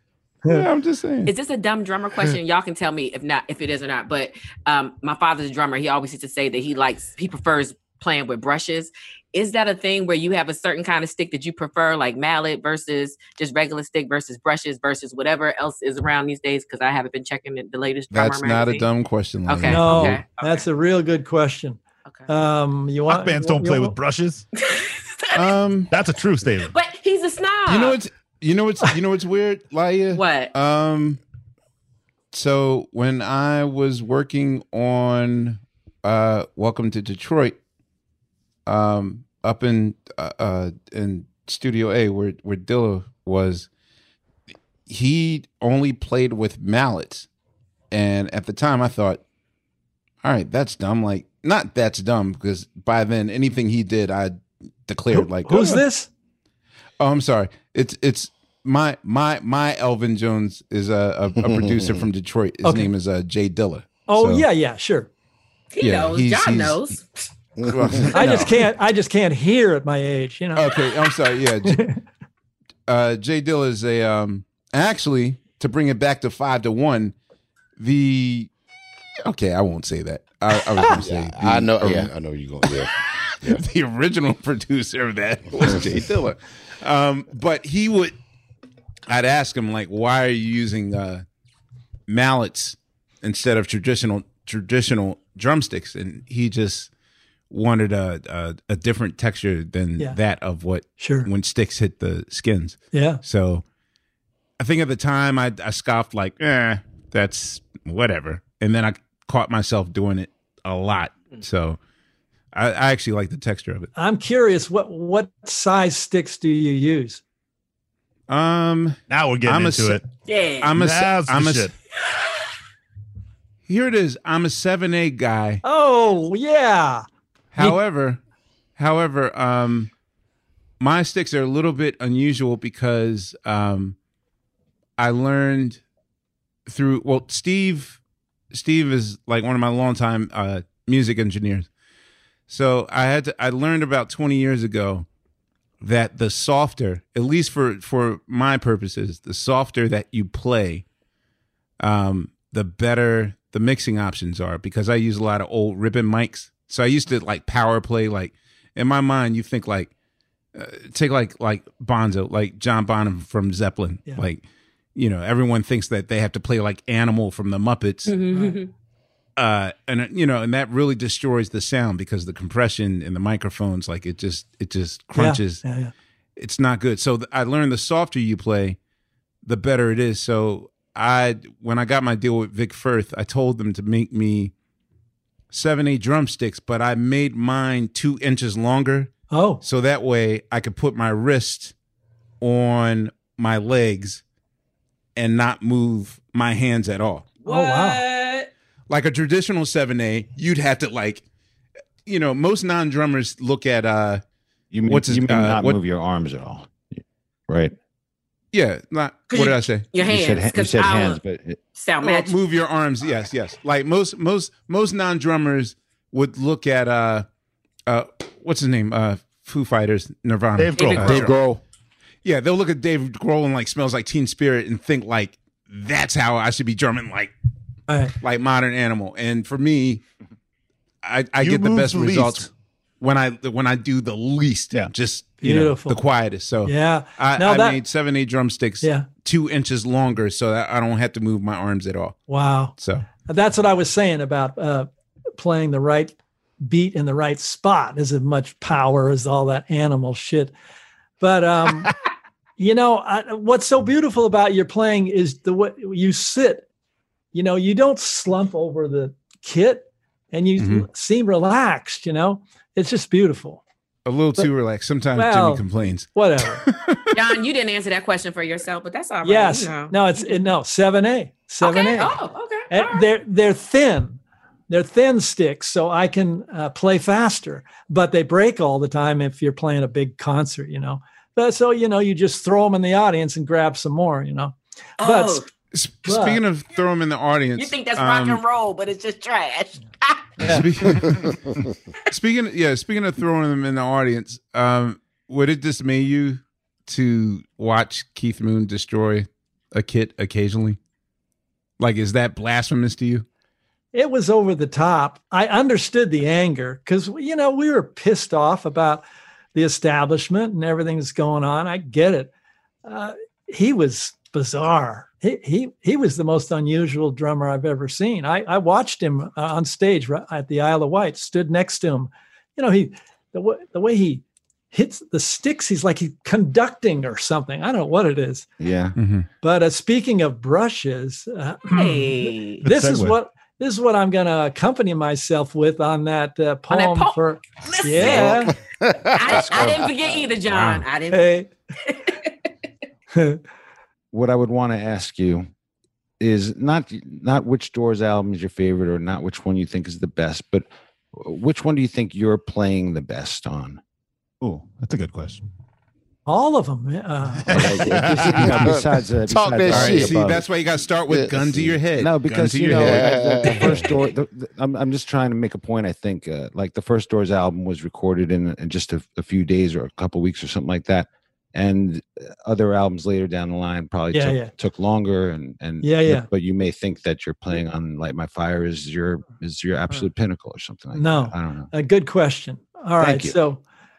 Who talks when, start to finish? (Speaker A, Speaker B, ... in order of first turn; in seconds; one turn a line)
Speaker A: 0.5-1.3
Speaker B: 1.2-18.9
Speaker A: 18.1-20.2
Speaker B: 19.5-20.6
Speaker C: 19.6-23.9
Speaker D: 23.1-24.4
Speaker B: 24.6-25.6
Speaker A: 25.3-25.9
Speaker D: 25.9-26.7
Speaker B: 26.7-28.0
Speaker A: 27.7-31.2
Speaker B: 30.1-30.5
Speaker A: 32.3-37.6
Speaker A: 38.6-43.7
Speaker A: 44.9-47.3
Speaker A: 47.9-49.2
Speaker A: 50.2-55.8
Speaker C: 55.1-56.1
Speaker A: 57.0-64.4
Speaker E: 61.5-62.0
Speaker C: 62.6-62.9
Speaker C: 64.1-65.1
Speaker B: 65.7-67.2
Speaker A: 65.8-66.9
Speaker E: 67.6-68.0
Speaker A: 67.7-68.5
Speaker C: 68.1-70.6
Speaker A: 70.5-71.8
Speaker A: 72.9-77.1
Speaker A: 77.8-78.5
Speaker A: 79.2-82.1
Speaker E: 80.8-82.9
Speaker A: 82.7-88.1
Speaker E: 85.6-86.0
Speaker A: 89.1-91.2
Speaker A: 92.1-96.9
Speaker A: 97.5-103.6
Speaker C: 101.0-101.3
Speaker C: 102.9-103.2
Speaker A: 104.6-111.8
Speaker A: 112.5-113.9
Speaker C: 114.0-117.2
Speaker A: 118.3-120.0
Speaker D: 119.1-120.0
Speaker B: 120.3-120.7
Speaker A: 120.6-121.7
Speaker D: 120.7-121.7
Speaker A: 123.7-125.6
Speaker C: 125.6-127.0
Speaker A: 127.5-128.2
Speaker A: 128.8-129.9
Speaker A: 130.8-133.9
Speaker A: 135.0-135.8
Speaker A: 136.7-138.0
Speaker A: 138.5-141.7
Speaker A: 142.5-145.1
Speaker A: 145.8-150.8
Speaker A: 151.8-159.9
Speaker A: 160.5-164.4
Speaker A: 164.9-168.2
Speaker B: 168.1-168.7
Speaker A: 169.4-175.6
Speaker C: 175.2-175.9
Speaker A: 176.4-178.8
Speaker A: 179.4-184.5
Speaker A: 185.5-191.7
Speaker C: 189.3-189.6
Speaker A: 192.4-194.2
Speaker A: 195.2-197.3
Speaker B: 197.4-198.5
Speaker C: 197.4-198.0
Speaker A: 198.9-201.2
Speaker A: 202.1-204.2
Speaker F: 204.7-207.7
Speaker A: 204.8-205.8
Speaker A: 208.5-209.8
Speaker B: 209.3-211.2
Speaker F: 209.9-211.6
Speaker B: 211.8-212.3
Speaker A: 212.0-217.2
Speaker A: 217.9-221.4
Speaker D: 220.6-221.6
Speaker B: 220.7-221.2
Speaker E: 221.1-221.6
Speaker A: 222.2-227.3
Speaker C: 227.9-228.1
Speaker A: 228.2-230.0
Speaker A: 231.0-232.5
Speaker D: 231.4-232.5
Speaker A: 233.0-242.2
Speaker C: 235.4-236.0
Speaker C: 236.6-237.8
Speaker C: 242.3-250.5
Speaker A: 242.8-243.1
Speaker C: 251.2-251.9
Speaker C: 252.6-256.6
Speaker C: 257.3-263.6
Speaker A: 260.6-260.9
Speaker A: 264.1-267.1
Speaker C: 265.1-266.6
Speaker B: 267.1-270.3
Speaker C: 269.2-272.1
Speaker B: 271.6-273.0
Speaker C: 272.7-274.2
Speaker C: 274.7-285.4
Speaker B: 285.0-285.4
Speaker A: 285.7-288.4
Speaker C: 286.0-286.4
Speaker B: 287.6-290.3
Speaker A: 290.4-291.5
Speaker A: 292.1-300.8
Speaker A: 301.8-303.2
Speaker C: 303.9-312.3
Speaker C: 312.8-328.4
Speaker F: 328.6-329.0
Speaker A: 329.0-329.3
Speaker C: 329.4-338.5
Speaker B: 331.7-332.6
Speaker D: 332.6-333.1
Speaker B: 336.7-341.3
Speaker E: 338.0-339.7
Speaker A: 339.5-339.8
Speaker A: 340.5-340.8
Speaker C: 341.1-341.5
Speaker B: 341.9-342.3
Speaker C: 343.1-343.4
Speaker F: 344.1-345.5
Speaker F: 346.2-353.8
Speaker D: 354.4-355.5
Speaker C: 356.2-357.6
Speaker F: 357.5-360.4
Speaker E: 357.6-360.4
Speaker A: 359.7-363.8
Speaker E: 361.1-361.7
Speaker F: 361.9-381.7
Speaker E: 362.7-363.9
Speaker C: 374.1-374.5
Speaker C: 375.8-376.3
Speaker C: 380.9-383.6
Speaker F: 383.0-383.4